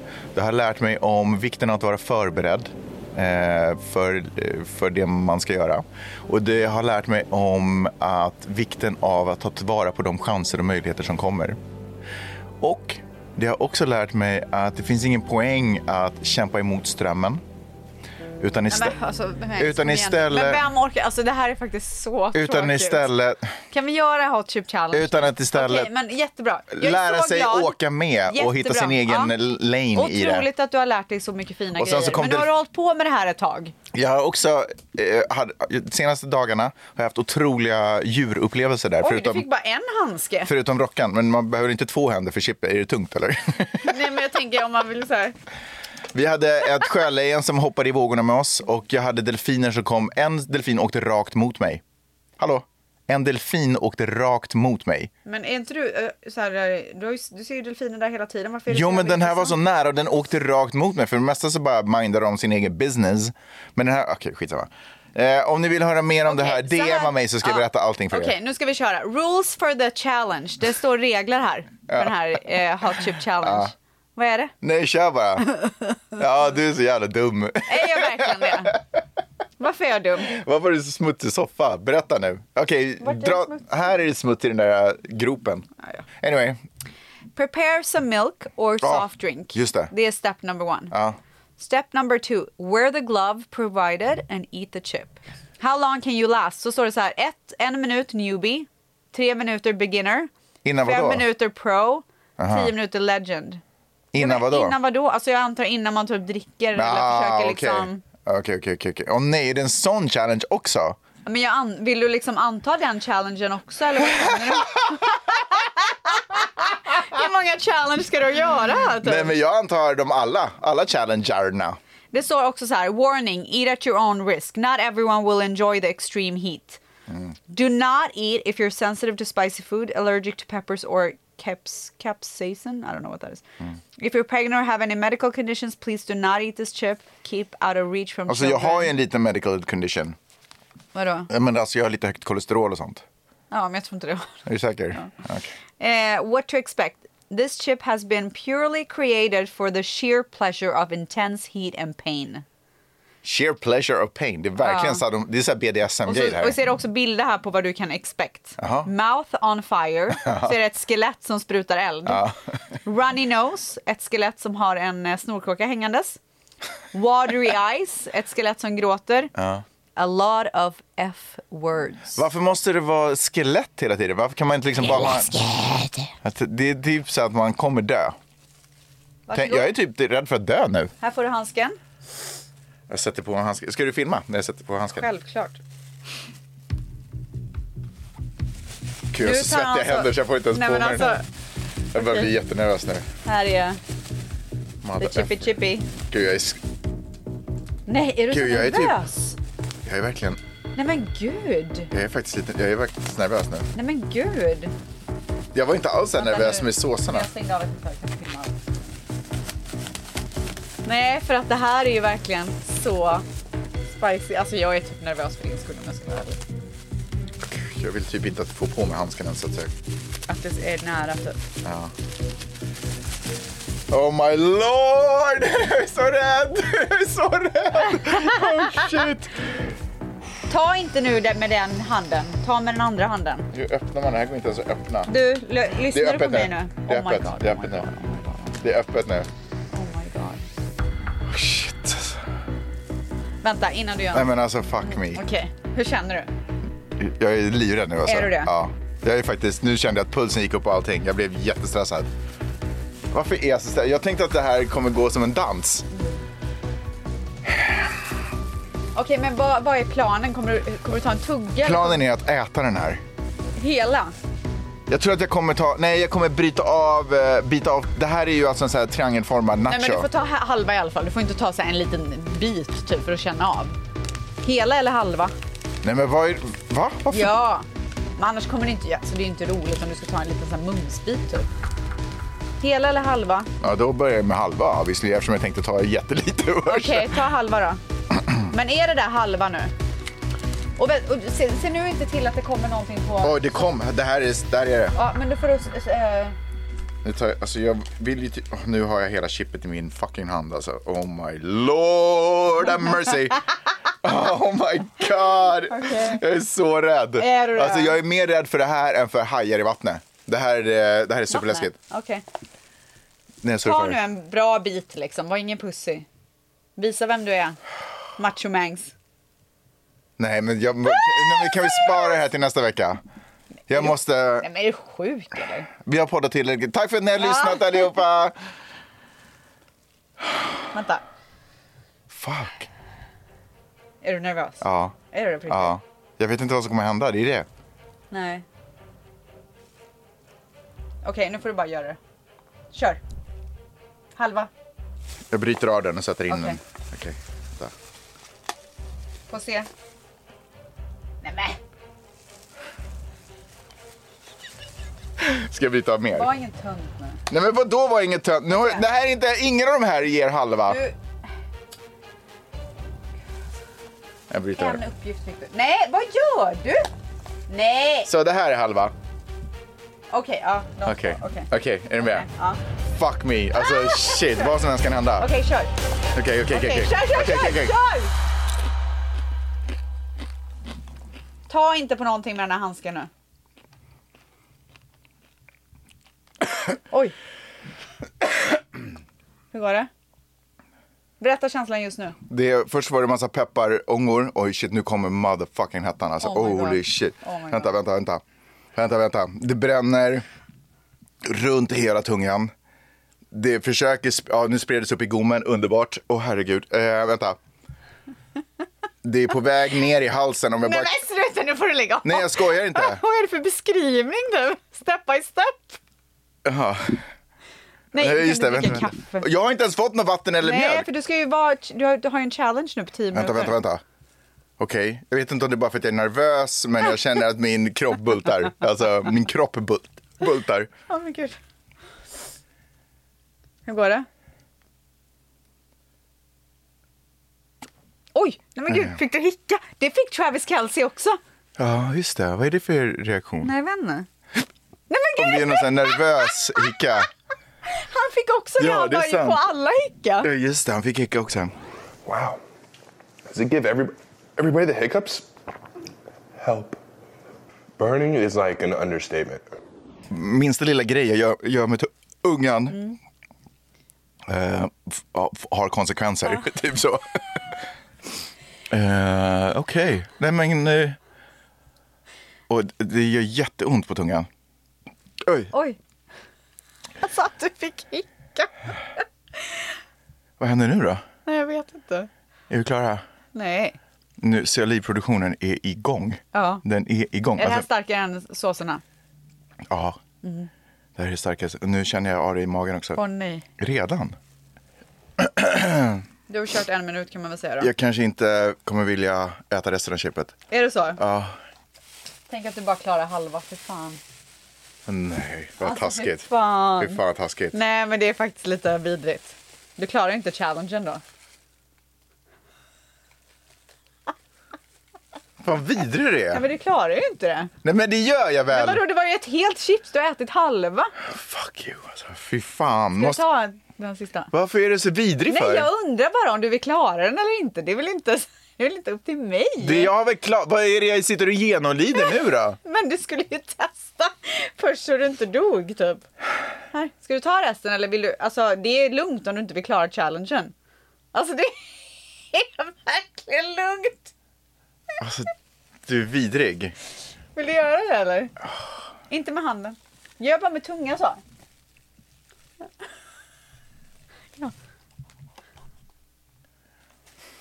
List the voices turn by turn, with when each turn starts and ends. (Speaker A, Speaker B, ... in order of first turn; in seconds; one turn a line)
Speaker A: 0.3-11.6
Speaker A: 12.6-17.4
Speaker A: 18.4-18.9
Speaker B: 18.7-23.1
Speaker A: 19.6-20.6
Speaker A: 22.3-23.6
Speaker B: 23.7-29.3
Speaker A: 24.9-25.9
Speaker A: 26.7-30.5
Speaker B: 29.9-33.7
Speaker A: 31.8-32.5
Speaker A: 33.9-39.5
Speaker B: 39.0-40.5
Speaker A: 40.5-44.0
Speaker B: 43.9-45.4
Speaker A: 46.1-51.8
Speaker A: 52.4-55.1
Speaker B: 55.3-59.6
Speaker A: 58.7-68.3
Speaker B: 66.3-74.5
Speaker A: 71.9-72.4
Speaker A: 73.0-73.7
Speaker A: 74.6-75.5
Speaker A: 76.2-78.8
Speaker B: 77.7-78.8
Speaker B: 79.6-80.3
Speaker A: 80.2-85.7
Speaker B: 83.0-83.7
Speaker A: 86.2-86.6
Speaker B: 87.3-90.9
Speaker A: 88.8-89.9
Speaker A: 90.9-91.2
Speaker B: 91.6-100.3
Speaker A: 100.7-101.3
Speaker B: 100.8-103.6
Speaker A: 102.4-102.7
Speaker A: 104.1-104.8
Speaker B: 104.2-108.0
Speaker A: 106.8-111.0
Speaker B: 111.3-119.3
Speaker A: 114.1-115.0
Speaker A: 119.0-121.8
Speaker B: 122.1-126.8
Speaker B: 127.5-133.4
Speaker B: 134.0-138.9
Speaker A: 138.3-140.2
Speaker B: 140.9-141.3
Speaker A: 141.3-143.1
Speaker B: 143.5-145.1
Speaker A: 144.5-145.5
Speaker B: 145.8-152.4
Speaker A: 153.2-156.6
Speaker B: 154.6-155.0
Speaker B: 156.1-162.3
Speaker A: 158.6-158.9
Speaker A: 160.2-160.5
Speaker A: 162.1-162.4
Speaker B: 162.8-166.2
Speaker B: 166.9-169.3
Speaker A: 169.3-169.6
Speaker B: 170.0-172.2
Speaker A: 172.2-175.4
Speaker A: 176.2-178.2
Speaker B: 179.3-179.7
Speaker A: 179.3-180.9
Speaker B: 181.0-181.8
Speaker A: 182.9-185.1
Speaker B: 184.9-185.6
Speaker A: 189.1-191.2
Speaker B: 189.2-191.3
Speaker A: 191.9-193.1
Speaker B: 192.0-192.3
Speaker B: 193.2-193.8
Speaker A: 194.8-196.6
Speaker B: 195.0-195.9
Speaker B: 197.9-199.4
Speaker A: 198.3-199.0
Speaker A: 199.8-200.4
Speaker B: 200.8-201.9
Speaker A: 201.9-203.7
Speaker B: 203.8-204.7
Speaker A: 205.5-207.3
Speaker B: 206.2-208.6
Speaker B: 210.8-213.3
Speaker B: 213.9-216.4
Speaker A: 217.4-219.7
Speaker B: 220.3-221.4
Speaker A: 221.6-221.9
Speaker A: 223.9-229.5
Speaker B: 228.0-228.8
Speaker B: 230.5-233.5
Speaker A: 233.5-235.1
Speaker B: 235.1-238.6
Speaker A: 235.8-237.9
Speaker A: 238.6-239.3
Speaker B: 239.7-240.4
Speaker A: 241.3-242.2
Speaker B: 243.4-244.3
Speaker A: 244.1-245.2
Speaker B: 244.9-246.3
Speaker A: 247.0-252.1
Speaker B: 248.1-248.5
Speaker A: 253.1-255.9
Speaker A: 257.5-257.8
Speaker B: 258.9-262.0
Speaker A: 261.6-263.0
Speaker B: 263.6-264.1
Speaker A: 264.9-270.1
Speaker B: 269.7-273.8
Speaker B: 274.4-275.3
Speaker A: 275.8-277.4
Speaker B: 277.1-277.7
Speaker B: 278.2-281.5
Speaker B: 282.6-283.5
Speaker A: 283.6-287.2
Speaker B: 286.7-287.8
Speaker B: 288.4-289.7
Speaker B: 290.8-293.4
Speaker A: 293.2-294.9
Speaker B: 294.9-296.4
Speaker A: 297.0-303.4
Speaker A: 304.0-311.8
Speaker B: 305.6-306.2
Speaker B: 307.2-308.0
Speaker B: 311.3-312.2
Speaker A: 313.4-314.0
Speaker B: 313.6-316.1
Speaker B: 316.8-317.6
Speaker B: 318.2-318.9
Speaker A: 320.2-323.0
Speaker A: 323.7-324.5
Speaker B: 323.7-325.7
Speaker A: 325.8-328.4
Speaker B: 327.2-327.9
Speaker B: 330.7-331.0
Speaker A: 332.1-332.7
Speaker B: 334.0-335.8
Speaker A: 334.6-335.0
Speaker A: 335.5-337.5
Speaker B: 338.1-338.4
Speaker B: 341.0-342.0
Speaker B: 342.7-343.0
Speaker B: 344.2-344.5
Speaker A: 345.3-347.7
Speaker B: 346.3-346.6
Speaker B: 349.3-349.7
Speaker B: 351.2-351.6
Speaker A: 355.2-356.3
Speaker B: 356.1-357.2
Speaker A: 357.3-360.8
Speaker B: 358.5-358.8
Speaker B: 360.7-360.9
Speaker A: 364.3-364.8
Speaker B: 364.6-366.9
Speaker B: 367.5-368.1
Speaker A: 368.1-368.9
Speaker B: 370.1-372.6
Speaker A: 370.9-372.3
Speaker A: 372.9-375.3
Speaker B: 373.6-374.5
Speaker B: 375.2-375.7
Speaker A: 376.1-377.8
Speaker B: 376.5-378.1
Speaker B: 381.5-383.1
Speaker B: 389.5-389.9
Speaker B: 391.2-392.2
Speaker A: 392.3-398.2
Speaker B: 396.2-397.8
Speaker A: 398.8-400.2
Speaker A: 401.2-402.5
Speaker A: 403.3-407.4
Speaker A: 409.0-411.0
Speaker B: 410.6-415.8
Speaker A: 412.0-413.0
Speaker A: 416.4-417.1
Speaker B: 417.9-419.3
Speaker A: 417.9-420.9
Speaker B: 420.4-423.6
Speaker A: 423.1-423.8
Speaker A: 424.6-430.7
Speaker B: 430.9-431.4
Speaker B: 433.7-434.1
Speaker B: 438.1-441.2
Speaker A: 441.6-443.5
Speaker B: 443.4-444.1
Speaker B: 444.9-446.1
Speaker A: 445.2-447.1
Speaker B: 447.7-450.3
Speaker A: 448.6-449.4
Speaker A: 450.2-451.6
Speaker C: 452.1-452.4
Speaker C: 453.3-455.3
Speaker C: 456.4-456.8
Speaker C: 457.8-459.5
Speaker A: 460.1-462.8
Speaker B: 462.7-463.0
Speaker A: 464.3-467.5
Speaker A: 468.7-471.0
Speaker A: 472.5-474.3
Speaker A: 475.2-475.5
Speaker B: 475.5-475.8
Speaker B: 477.0-478.5
Speaker A: 480.4-481.1
Speaker B: 481.3-482.1
Speaker A: 482.5-483.0
Speaker B: 483.3-483.8
Speaker A: 484.2-487.7
Speaker B: 486.3-486.6
Speaker B: 487.4-488.8
Speaker A: 489.7-490.0
Speaker B: 490.2-490.5
Speaker A: 491.0-493.0
Speaker B: 493.0-493.4
Speaker A: 493.6-494.2
Speaker A: 495.2-496.0
Speaker B: 496.3-497.7
Speaker A: 497.6-500.4
Speaker B: 500.5-501.0
Speaker A: 501.0-501.4
Speaker B: 502.3-504.0
Speaker A: 504.9-507.6
Speaker B: 505.6-507.0
Speaker B: 507.5-511.0
Speaker A: 515.4-516.5
Speaker B: 516.3-517.5
Speaker A: 517.6-518.8
Speaker B: 518.5-520.9
Speaker A: 521.0-523.2
Speaker B: 523.0-524.3
Speaker A: 524.3-525.7
Speaker B: 525.3-529.9
Speaker A: 529.6-532.6
Speaker B: 532.6-536.0
Speaker B: 536.7-540.5
Speaker B: 541.1-544.1
Speaker A: 545.0-545.3
Speaker A: 545.9-546.8
Speaker B: 547.4-548.3
Speaker B: 549.1-551.2